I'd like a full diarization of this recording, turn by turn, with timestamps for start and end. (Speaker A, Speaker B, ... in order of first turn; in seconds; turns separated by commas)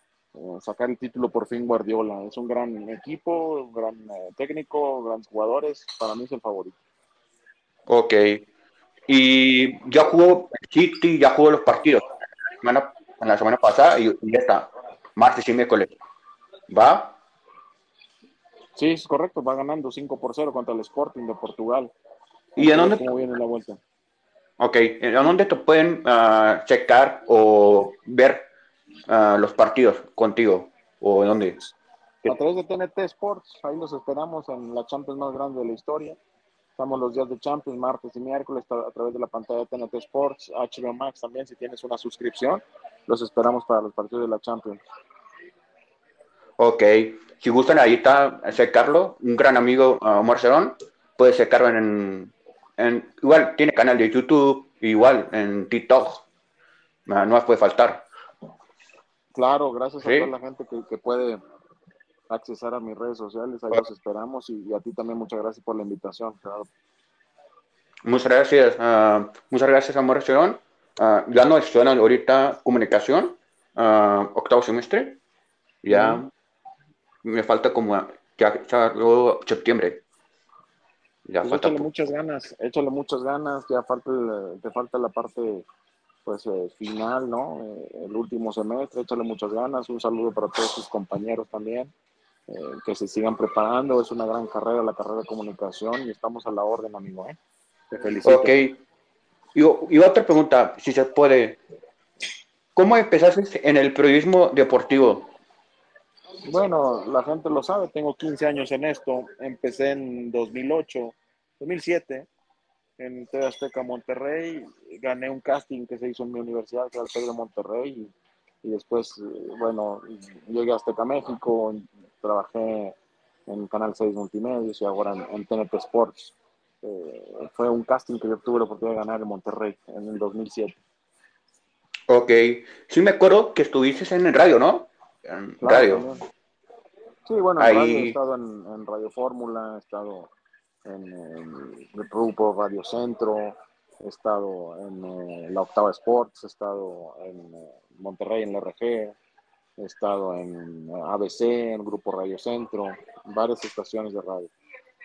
Speaker A: 0.3-6.8, Speaker B: 7.9-8.4, Speaker B: 9.1-12.0, Speaker B: 12.6-15.9, Speaker B: 16.7-17.1, Speaker A: 18.8-21.9, Speaker A: 22.6-23.8, Speaker B: 22.6-23.0, Speaker B: 24.6-28.4, Speaker B: 29.1-31.7, Speaker A: 32.2-36.2, Speaker A: 36.8-44.9, Speaker B: 46.6-56.3, Speaker B: 57.1-58.1, Speaker A: 59.4-61.4, Speaker B: 60.0-60.3, Speaker A: 62.3-66.7, Speaker B: 68.1-75.2, Speaker B: 75.8-76.3, Speaker A: 75.9-76.2, Speaker B: 77.2-80.0, Speaker B: 81.2-81.9, Speaker A: 81.4-85.7, Speaker A: 86.2-91.9, Speaker A: 92.5-97.4, Speaker A: 97.9-98.6, Speaker B: 98.2-98.8, Speaker B: 99.5-101.6, Speaker B: 102.8-105.3, Speaker A: 106.5-112.3, Speaker A: 113.0-130.8, Speaker B: 132.1-136.1, Speaker A: 135.6-136.2, Speaker A: 137.3-140.3, Speaker B: 137.6-138.2, Speaker A: 140.8-149.2, Speaker A: 149.8-154.5